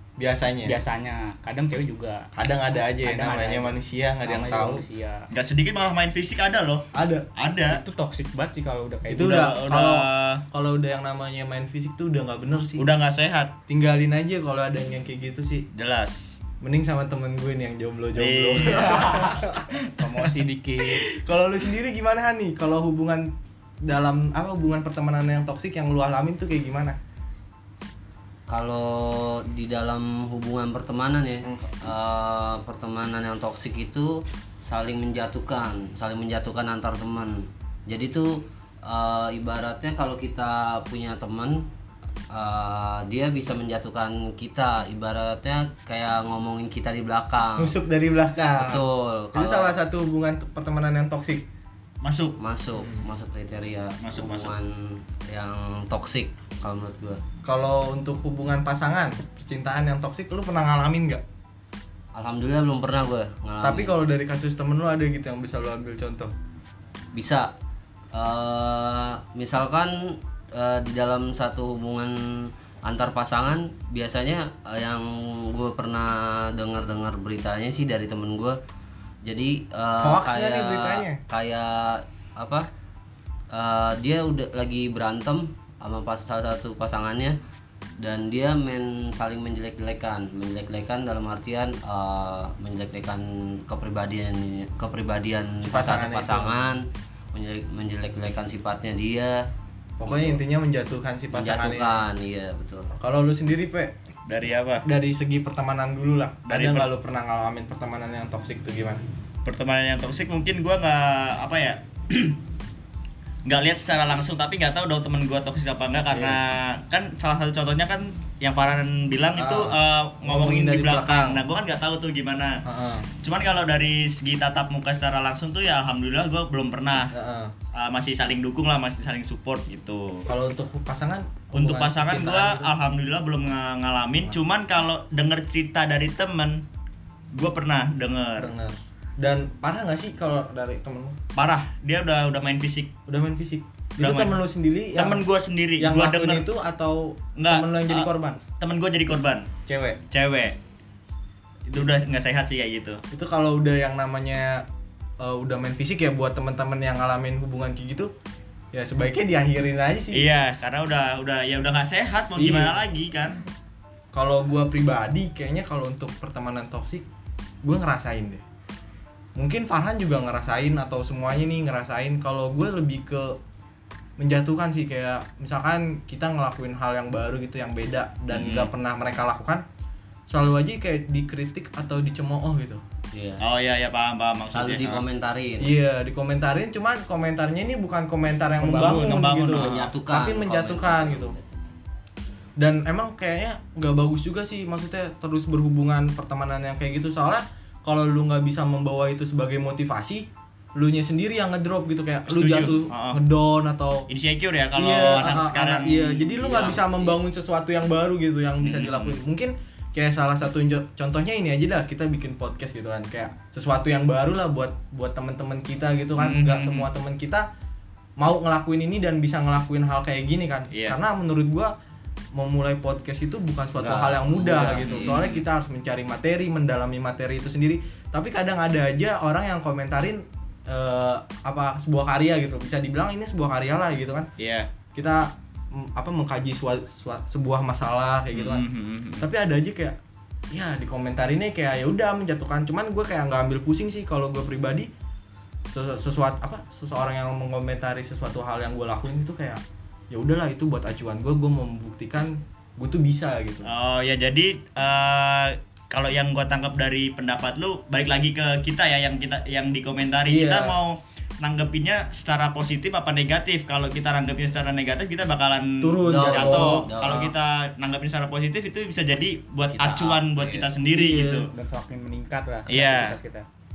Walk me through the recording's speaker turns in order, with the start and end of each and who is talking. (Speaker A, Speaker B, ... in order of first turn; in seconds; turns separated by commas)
Speaker A: 0.2-0.8, Speaker B: 0.7-2.3, Speaker A: 2.4-4.8, Speaker B: 3.0-5.2, Speaker C: 5.3-7.8, Speaker A: 6.9-7.3, Speaker B: 7.7-9.4, Speaker A: 9.1-12.8, Speaker C: 9.1-10.4, Speaker C: 12.8-13.5, Speaker A: 13.7-15.7, Speaker C: 15.7-16.4, Speaker A: 16.6-19.6, Speaker C: 18.1-20.2, Speaker B: 18.6-19.4, Speaker B: 20.0-21.1, Speaker A: 20.8-27.0, Speaker D: 28.5-41.7, Speaker A: 31.4-31.7, Speaker D: 42.3-47.8, Speaker A: 47.6-48.8, Speaker D: 48.6-49.8, Speaker A: 49.3-51.5, Speaker C: 52.0-52.4, Speaker D: 52.4-57.2, Speaker A: 52.7-53.0, Speaker C: 54.0-54.5, Speaker A: 57.4-61.2, Speaker D: 62.1-64.0, Speaker A: 63.6-66.3, Speaker D: 67.1-67.5, Speaker D: 68.1-78.6, Speaker D: 79.2-82.7, Speaker A: 80.0-81.2, Speaker D: 83.5-87.4, Speaker D: 88.0-99.5, Speaker A: 95.6-96.6, Speaker A: 100.0-102.0, Speaker D: 100.0-100.4, Speaker D: 101.3-102.9, Speaker A: 103.0-103.9, Speaker C: 104.3-104.8, Speaker A: 104.8-109.0, Speaker C: 106.5-106.9, Speaker C: 109.4-112.4, Speaker C: 113.5-122.6, Speaker A: 116.1-116.4, Speaker A: 119.4-121.4, Speaker A: 122.6-123.1, Speaker C: 123.2-127.1, Speaker A: 127.1-127.5, Speaker C: 127.7-130.3, Speaker A: 130.3-132.7, Speaker C: 131.5-136.6, Speaker C: 137.3-138.5, Speaker A: 138.4-141.2, Speaker C: 141.3-142.9, Speaker A: 143.1-145.2, Speaker C: 144.0-144.4, Speaker C: 144.9-146.4, Speaker A: 145.8-148.4, Speaker C: 147.3-148.1, Speaker C: 148.6-149.5, Speaker A: 149.7-150.0, Speaker C: 150.1-150.6, Speaker C: 151.7-153.0, Speaker A: 153.1-154.7, Speaker A: 155.2-158.1, Speaker A: 158.7-160.2, Speaker C: 160.1-163.4, Speaker A: 162.3-162.8, Speaker A: 164.1-167.1, Speaker A: 167.6-168.4, Speaker A: 169.3-173.4, Speaker A: 174.2-179.6, Speaker C: 178.3-178.7, Speaker A: 180.3-182.8, Speaker D: 183.1-183.4, Speaker C: 183.4-185.0, Speaker D: 184.5-185.7, Speaker A: 185.6-191.3, Speaker B: 188.6-189.3, Speaker C: 188.8-189.9, Speaker D: 189.6-191.7, Speaker A: 192.6-204.1, Speaker C: 202.3-203.2, Speaker C: 204.1-206.8, Speaker A: 204.7-217.4, Speaker D: 206.5-207.1, Speaker C: 208.6-209.1, Speaker C: 216.2-216.9, Speaker A: 218.2-221.7, Speaker A: 222.3-234.3, Speaker D: 223.8-225.1, Speaker C: 224.8-225.4, Speaker C: 234.4-234.7, Speaker A: 234.9-238.6, Speaker C: 238.3-239.3, Speaker A: 239.2-240.0, Speaker A: 240.5-244.9, Speaker A: 245.7-253.7, Speaker C: 253.6-271.5, Speaker A: 260.3-260.8, Speaker A: 265.8-267.2, Speaker D: 266.1-267.3, Speaker D: 269.7-270.7, Speaker A: 270.9-271.4, Speaker B: 271.5-273.4, Speaker C: 272.7-273.2